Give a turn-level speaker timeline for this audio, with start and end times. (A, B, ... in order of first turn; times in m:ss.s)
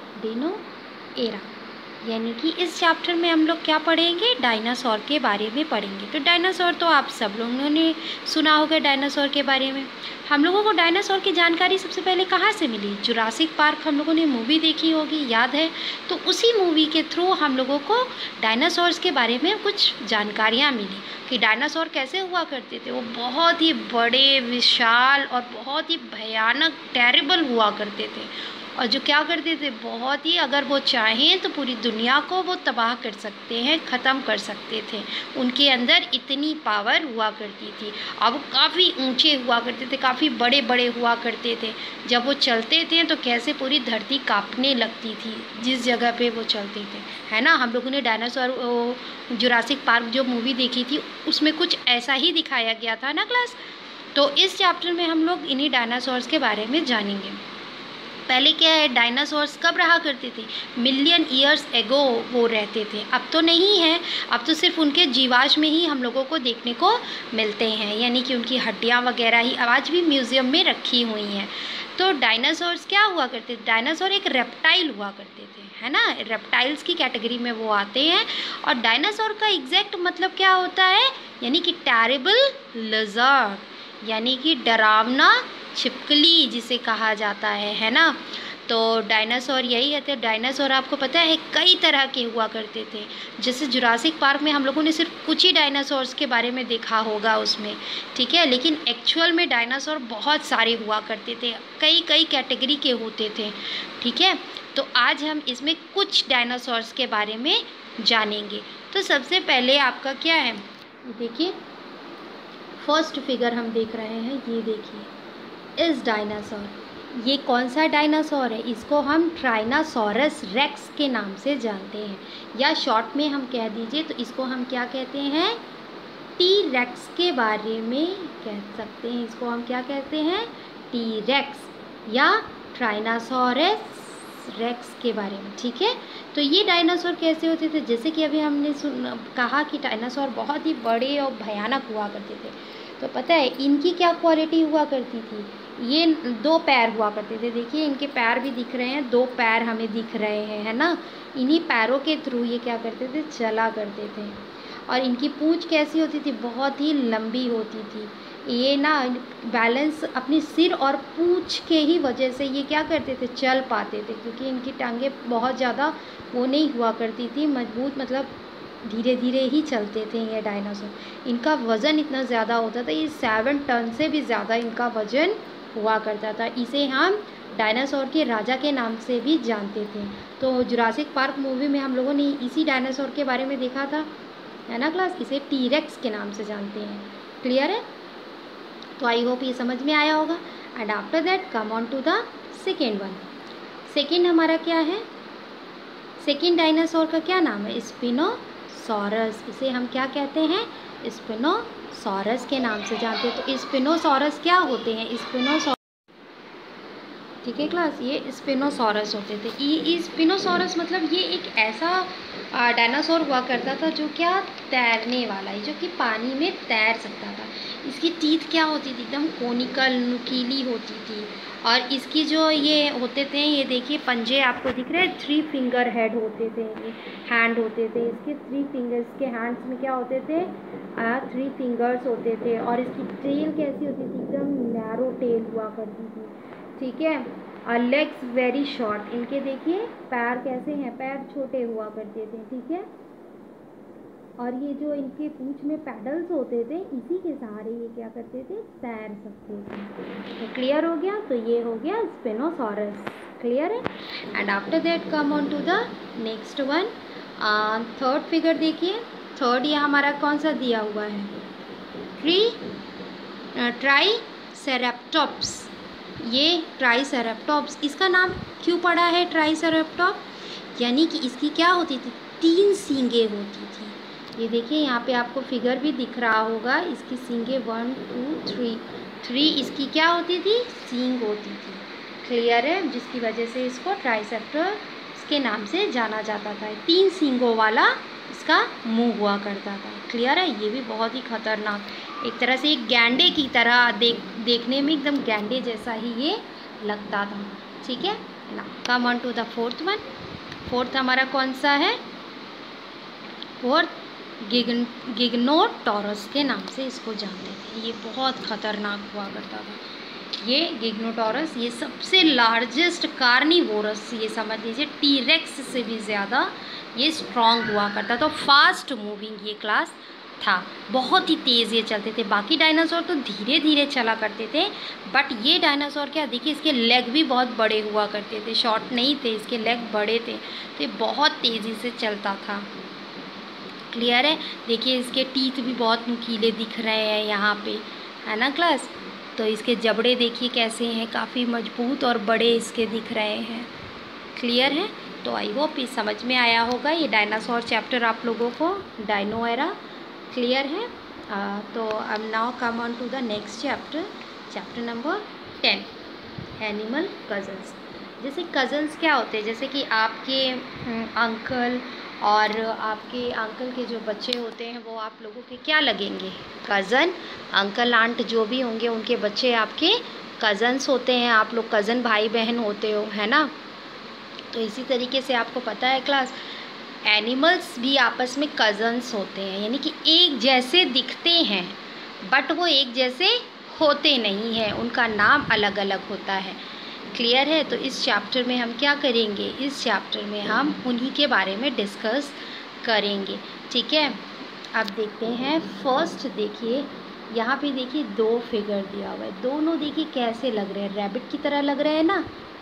0:00.2-0:00.6 A
0:01.2-0:53.6 A
0:54.1-0:57.4 A
0:58.3-1:51.6 A
1:52.8-1:55.1 A
1:55.8-2:05.6 A
2:06.4-3:04.1 A
3:04.7-3:07.8 A
3:09.0-3:13.3 A
3:13.9-3:15.1 A
3:16.2-3:25.8 A
3:27.4-4:02.9 A
4:04.4-4:21.4 A
4:22.2-4:22.6 A
4:23.6-5:00.0 A
5:00.6-5:02.0 A
5:03.6-5:09.8 A
5:10.4-5:32.7 A
5:33.9-5:43.7 A
5:44.3-5:49.8 A
5:50.3-5:56.0 A
5:56.6-6:13.5 A
6:14.5-6:16.4 A
6:17.0-6:26.6 A
6:27.1-6:34.2 A
6:34.7-6:42.3 A